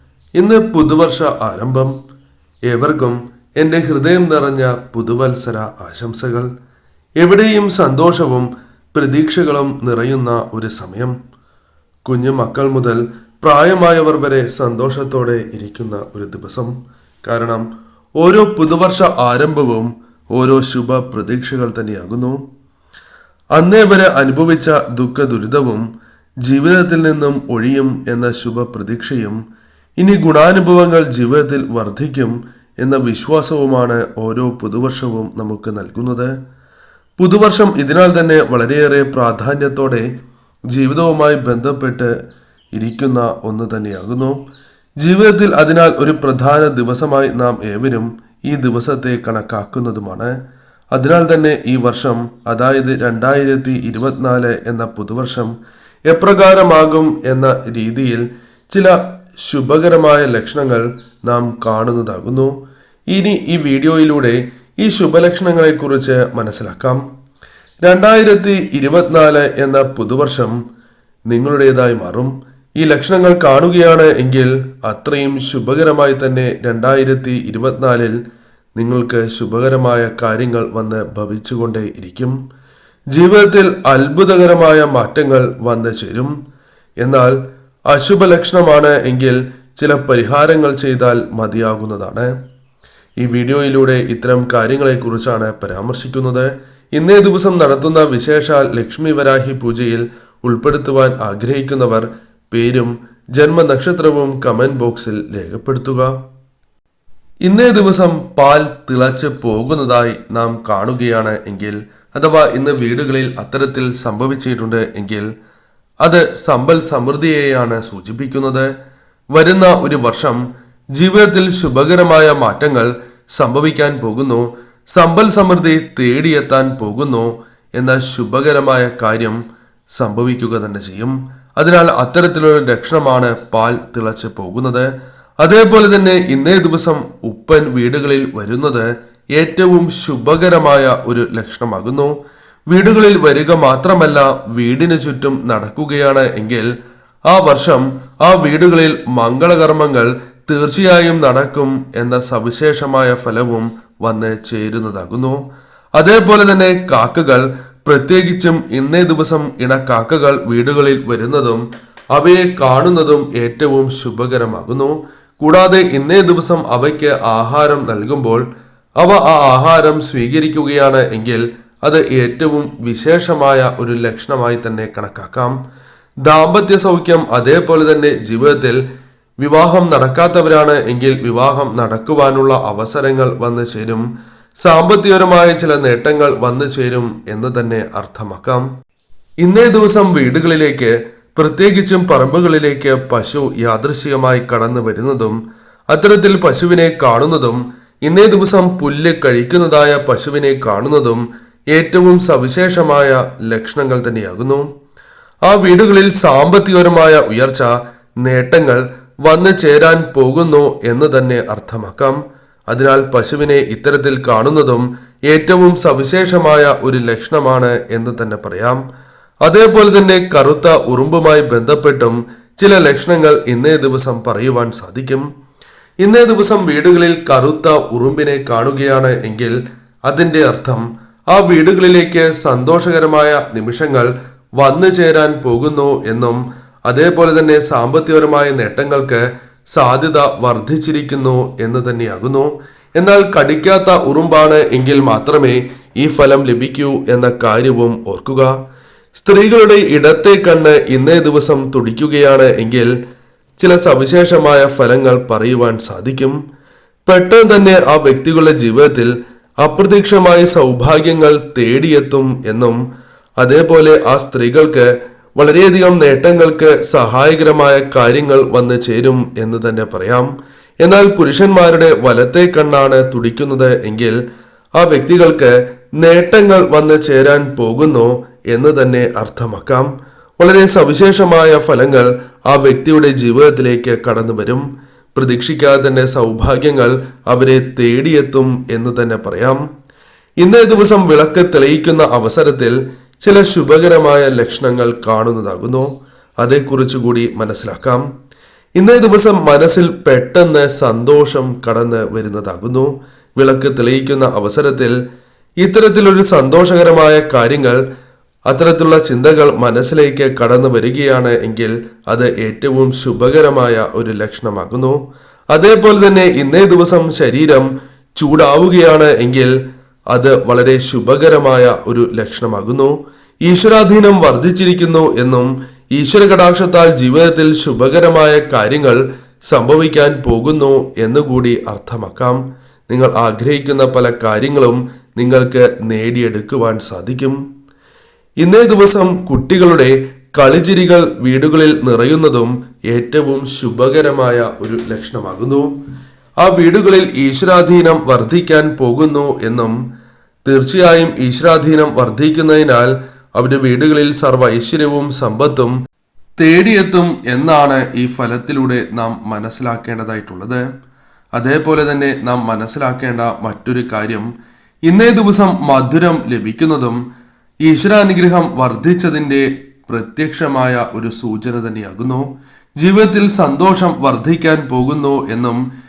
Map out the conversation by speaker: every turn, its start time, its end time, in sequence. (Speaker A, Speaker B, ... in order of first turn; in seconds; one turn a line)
Speaker A: 0.3-2.0
Speaker A: 2.7-6.5
Speaker A: 7.2-11.2
Speaker A: 12.0-17.6
Speaker A: 18.2-22.4
Speaker A: 23.5-25.9
Speaker A: 26.4-29.4
Speaker A: 30.0-36.3
Speaker A: 37.2-40.0
Speaker A: 40.7-42.1
Speaker A: 42.7-44.4
Speaker A: 45.0-50.3
Speaker A: 50.9-55.5
Speaker A: 56.1-62.5
Speaker A: 63.1-67.0
Speaker A: 67.8-70.5
Speaker A: 71.3-78.2
Speaker A: 78.8-82.4
Speaker A: 83.1-86.3
Speaker A: 87.0-87.4
Speaker A: 87.9-92.3
Speaker A: 93.2-106.1
Speaker A: 107.5-115.3
Speaker A: 116.0-118.7
Speaker A: 119.3-120.4
Speaker A: 121.0-129.4
Speaker A: 129.9-134.9
Speaker A: 135.4-142.1
Speaker A: 142.7-146.7
Speaker A: 147.3-155.4
Speaker A: 155.9-161.6
Speaker A: 162.1-168.4
Speaker A: 169.0-175.6
Speaker A: 176.2-178.8
Speaker A: 179.4-184.1
Speaker A: 184.6-188.7
Speaker A: 189.4-195.4
Speaker A: 195.9-204.7
Speaker A: 205.5-212.2
Speaker A: 212.7-218.8
Speaker A: 219.4-225.3
Speaker A: 226.0-229.6
Speaker A: 230.1-239.2
Speaker A: 239.7-248.5
Speaker A: 249.1-252.9
Speaker A: 253.6-256.4
Speaker A: 257.1-262.8
Speaker A: 263.4-270.3
Speaker A: 270.8-274.1
Speaker A: 274.8-279.9
Speaker A: 280.4-289.6
Speaker A: 290.4-298.0
Speaker A: 298.8-304.9
Speaker A: 305.6-307.8
Speaker A: 308.5-315.0
Speaker A: 315.5-319.5
Speaker A: 320.1-337.4
Speaker A: 338.4-345.7
Speaker A: 346.4-349.8
Speaker A: 350.4-355.7
Speaker A: 356.4-360.6
Speaker A: 361.4-364.3
Speaker A: 364.9-367.0
Speaker A: 367.6-372.3
Speaker A: 372.8-375.6